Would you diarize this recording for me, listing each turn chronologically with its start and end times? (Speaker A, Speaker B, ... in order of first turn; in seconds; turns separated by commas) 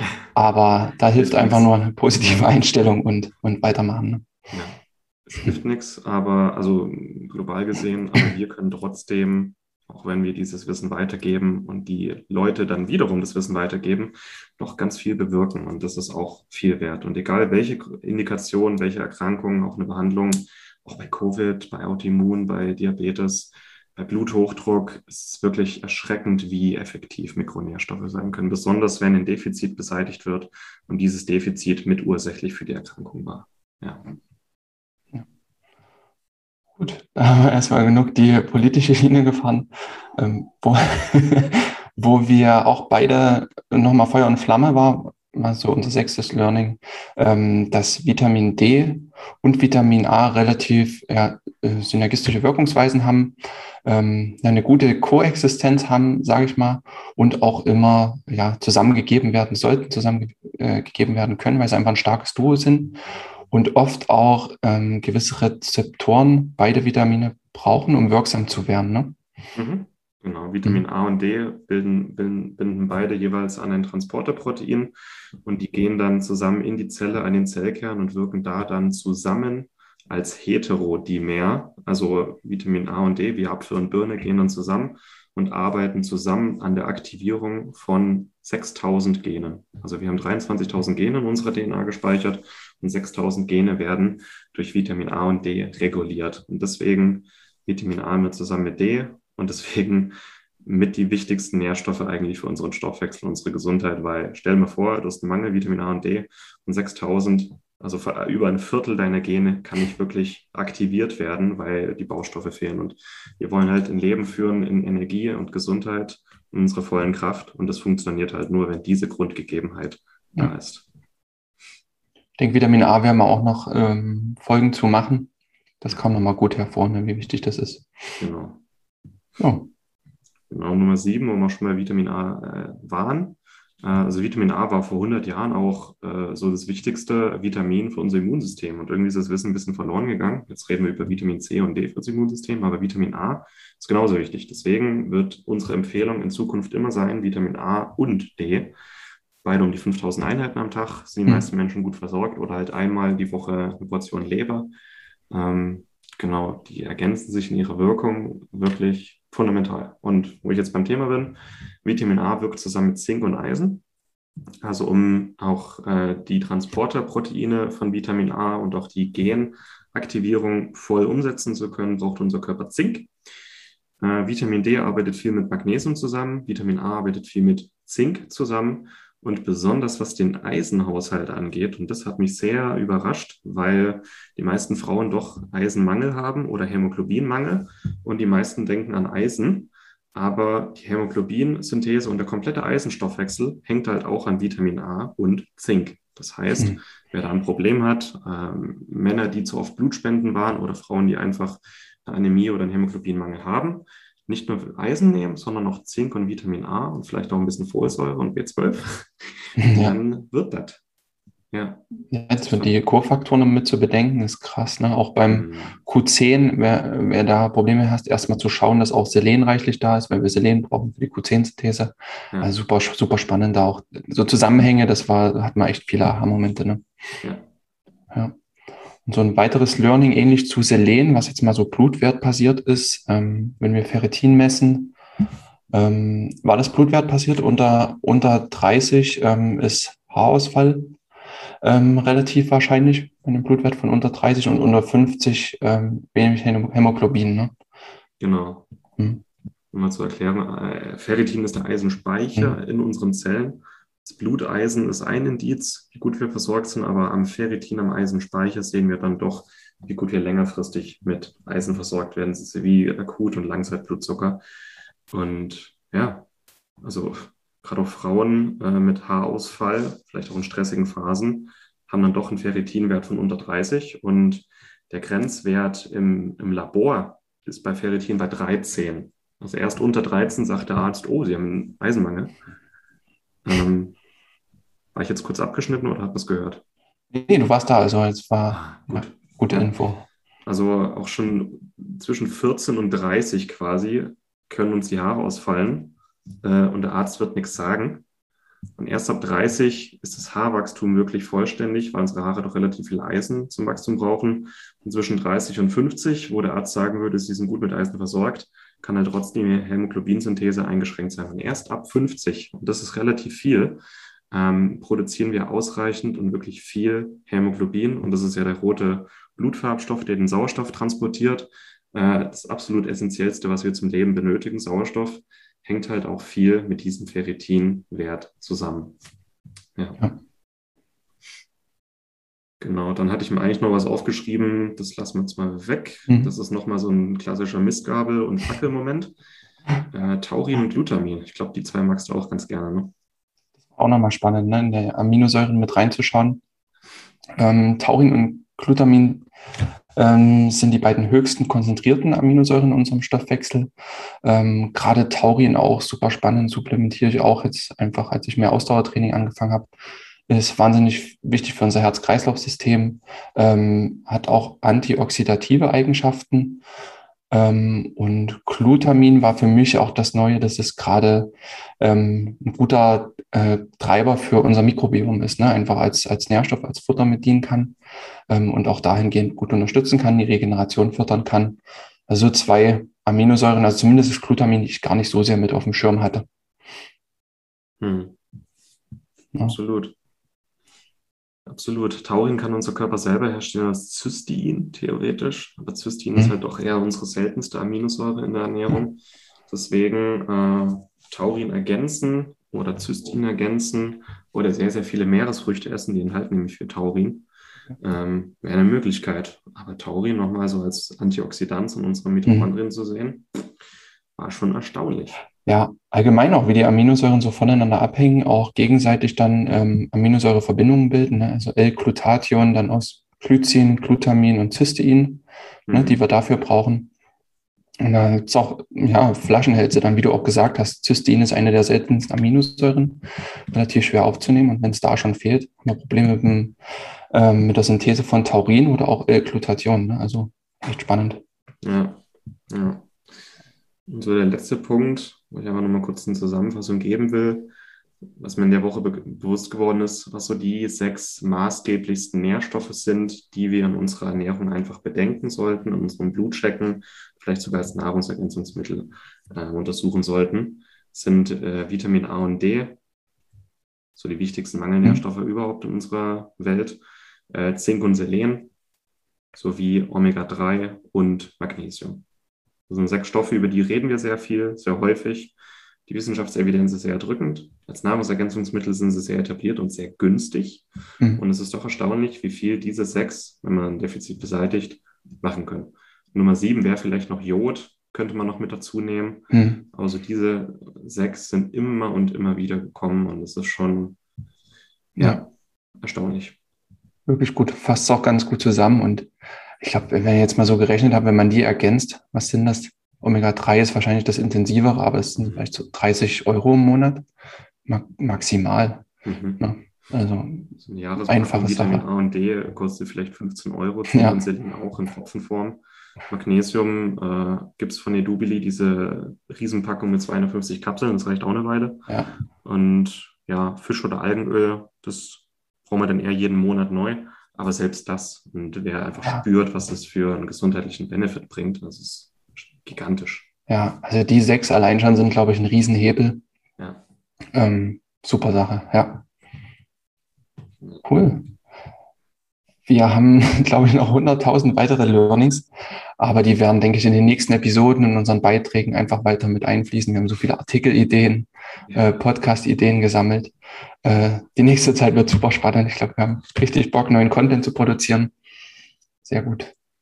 Speaker A: 0.3-4.3, Speaker B: 1.1-1.7, Speaker B: 4.5-34.0, Speaker A: 36.8-69.2, Speaker B: 69.5-120.8, Speaker A: 122.4-127.9, Speaker B: 128.2-128.6, Speaker A: 129.4-129.7, Speaker B: 130.5-148.8, Speaker B: 149.4-154.7, Speaker B: 155.3-163.8, Speaker B: 164.6-173.1, Speaker B: 174.0-210.8, Speaker A: 209.6-210.0, Speaker B: 211.5-211.8, Speaker A: 212.1-226.8, Speaker B: 215.3-215.8, Speaker A: 229.1-234.9, Speaker A: 235.7-240.9, Speaker A: 241.6-247.5, Speaker B: 248.2-248.7, Speaker B: 249.7-264.4, Speaker B: 265.1-266.3, Speaker B: 266.8-282.3, Speaker B: 283.4-284.0, Speaker B: 284.9-286.6, Speaker A: 287.1-290.1, Speaker B: 288.5-289.7, Speaker B: 290.5-298.0, Speaker B: 298.8-329.0, Speaker B: 329.8-330.0, Speaker B: 332.6-339.1, Speaker A: 336.1-336.3, Speaker B: 339.9-342.9, Speaker A: 343.7-346.4, Speaker A: 347.4-349.3, Speaker A: 350.0-353.7, Speaker A: 354.2-359.7, Speaker A: 360.3-366.6, Speaker A: 367.3-377.8, Speaker A: 378.3-386.3, Speaker B: 387.8-388.2, Speaker B: 389.5-389.9, Speaker B: 391.5-413.5, Speaker A: 412.3-412.5, Speaker B: 414.2-415.2, Speaker A: 415.5-426.9, Speaker B: 425.7-426.0, Speaker A: 427.8-436.6, Speaker A: 437.1-441.2, Speaker B: 441.6-442.9, Speaker B: 443.9-447.5, Speaker B: 448.2-462.8, Speaker B: 463.9-468.5, Speaker B: 469.3-472.0, Speaker B: 472.7-475.4, Speaker B: 475.9-480.7, Speaker B: 481.2-494.0, Speaker A: 489.3-489.6, Speaker B: 495.0-495.3, Speaker A: 495.0-495.2, Speaker B: 495.8-496.4, Speaker A: 497.1-507.1, Speaker B: 505.2-505.5, Speaker A: 507.7-508.9, Speaker B: 509.0-509.5, Speaker A: 509.4-511.8, Speaker B: 510.6-521.9, Speaker A: 513.9-514.2, Speaker B: 522.4-533.3, Speaker A: 533.5-536.2, Speaker A: 537.3-539.0, Speaker A: 540.9-541.3, Speaker A: 542.7-558.1, Speaker A: 559.0-559.5